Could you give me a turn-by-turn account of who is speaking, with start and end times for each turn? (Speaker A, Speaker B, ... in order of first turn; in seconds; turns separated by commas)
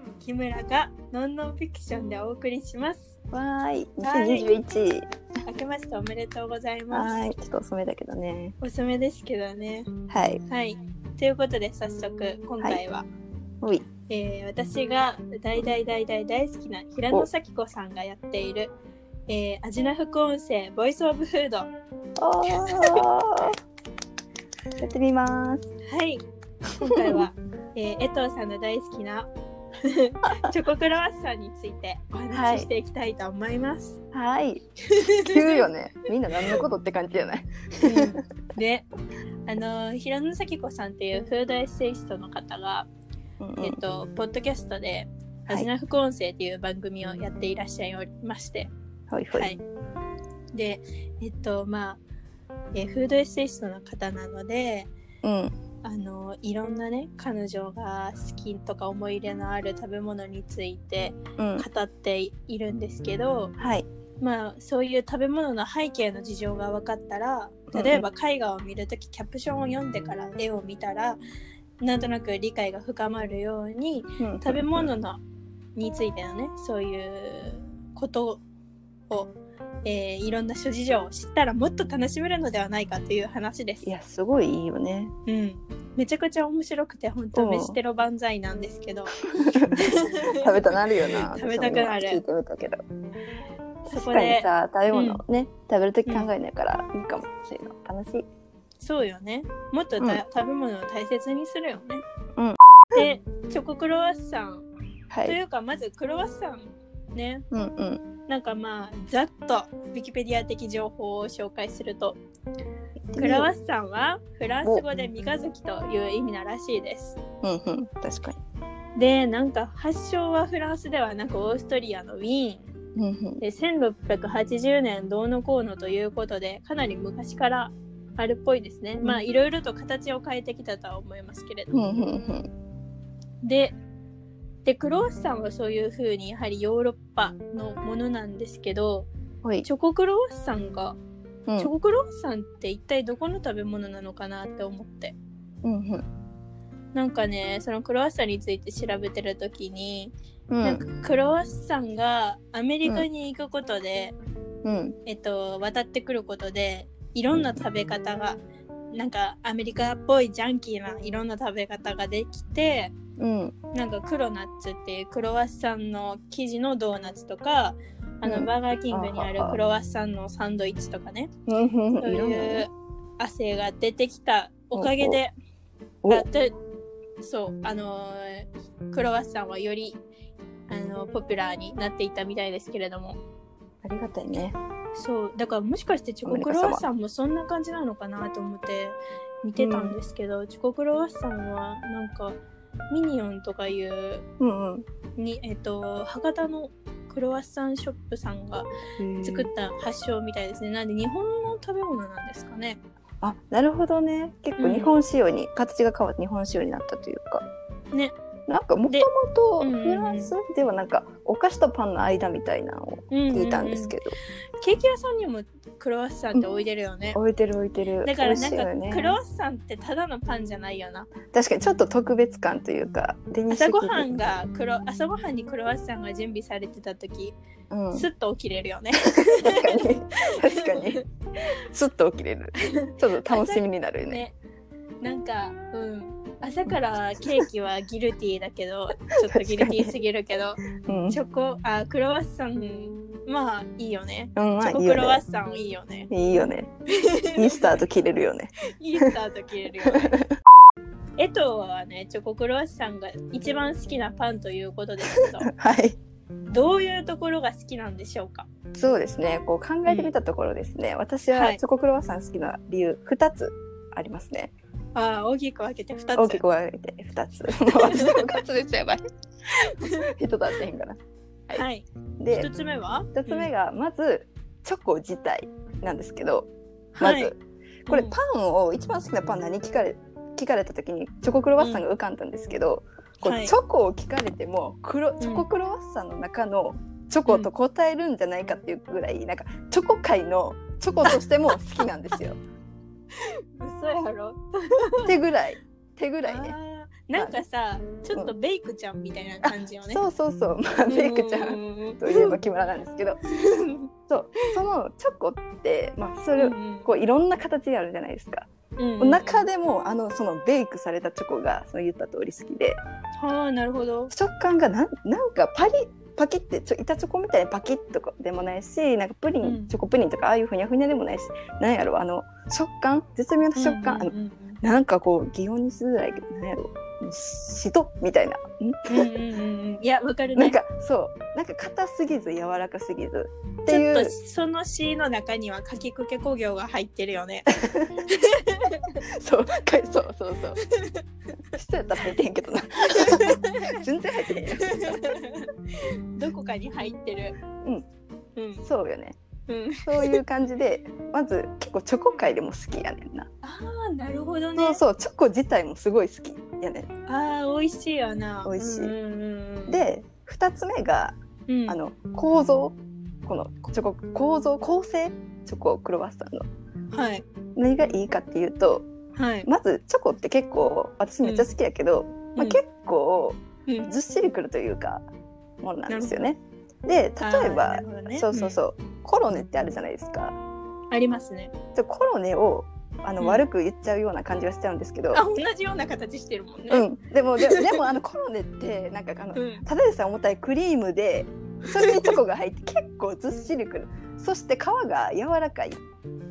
Speaker A: 0.2-3.1, Speaker B: 3.3-5.1, Speaker A: 4.0-4.5, Speaker A: 5.5-7.2, Speaker B: 6.9-8.6, Speaker A: 8.6-9.9, Speaker B: 10.1-10.4, Speaker A: 10.5-13.1, Speaker A: 14.1-18.7, Speaker A: 19.3-21.7, Speaker B: 22.2-23.6, Speaker A: 22.5-23.0, Speaker B: 24.8-25.7, Speaker A: 25.9-26.2, Speaker A: 26.8-29.3, Speaker B: 26.8-27.2, Speaker A: 29.8-34.0, Speaker B: 32.3-32.7, Speaker B: 34.1-34.6, Speaker A: 34.9-35.7, Speaker B: 35.2-38.2, Speaker A: 36.3-36.6, Speaker A: 37.8-38.9, Speaker A: 39.5-42.9, Speaker B: 43.4-43.8, Speaker A: 43.6-48.7, Speaker B: 49.1-49.5, Speaker A: 49.3-49.6, Speaker A: 50.5-52.0, Speaker A: 52.7-54.9, Speaker B: 55.2-55.5, Speaker A: 55.8-63.5, Speaker B: 61.4-61.7, Speaker B: 63.6-63.9, Speaker A: 64.2-71.2, Speaker B: 67.7-68.0, Speaker A: 71.8-75.2, Speaker B: 74.2-74.9, Speaker A: 75.8-78.4, Speaker A: 79.8-83.9, Speaker B: 83.8-85.1, Speaker A: 85.3-89.2, Speaker B: 87.3-87.8, Speaker B: 89.2-92.8, Speaker A: 89.8-90.6, Speaker A: 91.2-92.2, Speaker A: 93.9-95.2, Speaker B: 93.9-98.3, Speaker A: 98.8-102.0, Speaker B: 102.4-103.0, Speaker A: 102.9-104.7, Speaker B: 105.1-105.4, Speaker A: 105.2-107.5, Speaker B: 107.5-108.0, Speaker A: 108.3-112.2, Speaker B: 113.1-113.5, Speaker A: 113.2-117.2, Speaker B: 117.4-118.4, Speaker A: 119.0-122.7, Speaker B: 123.0-123.4, Speaker A: 123.4-131.8, Speaker B: 131.7-132.5, Speaker A: 133.4-133.8, Speaker A: 134.7-139.1, Speaker A: 139.6-141.0, Speaker A: 141.6-145.2, Speaker B: 145.6-146.1, Speaker A: 146.9-154.2, Speaker B: 150.5-150.8, Speaker B: 154.7-155.0, Speaker A: 155.1-158.4, Speaker A: 158.9-162.9, Speaker B: 163.2-163.6, Speaker A: 163.7-171.3, Speaker B: 168.2-169.6, Speaker B: 171.5-172.7, Speaker A: 172.0-175.3, Speaker B: 174.7-175.2, Speaker A: 176.1-176.5, Speaker A: 177.2-180.0, Speaker A: 180.7-183.2, Speaker B: 183.8-184.6, Speaker A: 184.9-192.4, Speaker B: 186.2-186.8, Speaker B: 189.6-189.9, Speaker A: 192.9-194.2, Speaker B: 194.4-194.9, Speaker A: 195.2-198.7, Speaker B: 199.0-199.5, Speaker A: 199.2-202.8, Speaker B: 203.2-207.4, Speaker A: 204.6-204.9, Speaker B: 208.5-214.2, Speaker A: 208.9-210.3, Speaker A: 213.1-214.0, Speaker A: 214.6-217.2, Speaker B: 217.1-219.2, Speaker A: 218.0-221.1, Speaker B: 221.3-224.1, Speaker A: 223.5-227.4, Speaker B: 227.7-228.1, Speaker A: 227.9-229.9, Speaker B: 229.3-231.0, Speaker A: 230.4-231.0, Speaker B: 231.6-234.2, Speaker A: 232.8-234.3, Speaker A: 235.0-246.1, Speaker B: 239.1-239.9, Speaker B: 240.8-241.2, Speaker B: 244.4-245.2, Speaker B: 246.1-246.7, Speaker A: 246.9-247.8, Speaker B: 247.3-249.1, Speaker A: 248.7-250.2, Speaker B: 249.8-250.3, Speaker A: 251.2-255.5, Speaker B: 255.2-256.0, Speaker A: 256.5-258.5, Speaker B: 258.7-264.5, Speaker A: 259.9-260.1, Speaker A: 261.3-261.6, Speaker A: 264.9-266.4, Speaker B: 266.2-269.0, Speaker A: 267.7-268.3, Speaker A: 269.8-270.1, Speaker B: 269.8-271.0, Speaker A: 271.6-273.5, Speaker B: 272.2-272.5, Speaker B: 273.1-277.4, Speaker A: 277.0-277.3, Speaker A: 277.9-278.2, Speaker B: 277.9-292.4, Speaker A: 281.6-281.8, Speaker A: 283.2-283.6, Speaker A: 285.2-285.4, Speaker A: 293.2-295.1, Speaker B: 295.1-296.6, Speaker A: 296.2-300.0, Speaker B: 297.1-297.4, Speaker B: 299.4-303.2, Speaker A: 300.9-302.4, Speaker A: 303.3-303.9, Speaker B: 304.1-312.8, Speaker A: 306.4-306.9, Speaker A: 308.8-309.4, Speaker A: 313.2-314.1, Speaker B: 314.1-329.1, Speaker A: 319.4-319.7, Speaker A: 323.6-324.6, Speaker A: 328.9-330.6, Speaker B: 330.4-334.1, Speaker A: 333.7-337.5, Speaker B: 337.5-338.0, Speaker A: 338.1-338.9, Speaker B: 339.1-340.6, Speaker A: 340.7-341.0, Speaker B: 341.5-345.2, Speaker A: 342.9-343.8, Speaker A: 344.6-347.4, Speaker A: 348.4-348.6, Speaker B: 348.6-349.2, Speaker A: 349.5-350.2, Speaker B: 349.8-353.3, Speaker A: 353.4-354.8, Speaker B: 354.6-356.9, Speaker A: 357.1-359.8, Speaker B: 358.4-358.9, Speaker B: 359.7-361.2, Speaker A: 361.5-361.8, Speaker B: 361.7-366.5, Speaker A: 366.9-367.2, Speaker B: 367.6-368.9, Speaker A: 369.1-369.5, Speaker B: 369.4-375.0, Speaker A: 371.2-371.5, Speaker A: 373.7-373.9, Speaker B: 375.6-380.4, Speaker A: 375.9-376.2, Speaker A: 377.2-378.6, Speaker A: 380.9-381.5, Speaker B: 381.8-385.2, Speaker A: 383.2-383.4, Speaker A: 385.1-386.9, Speaker B: 386.7-395.8, Speaker A: 387.5-387.8, Speaker A: 389.4-389.6, Speaker A: 391.8-392.1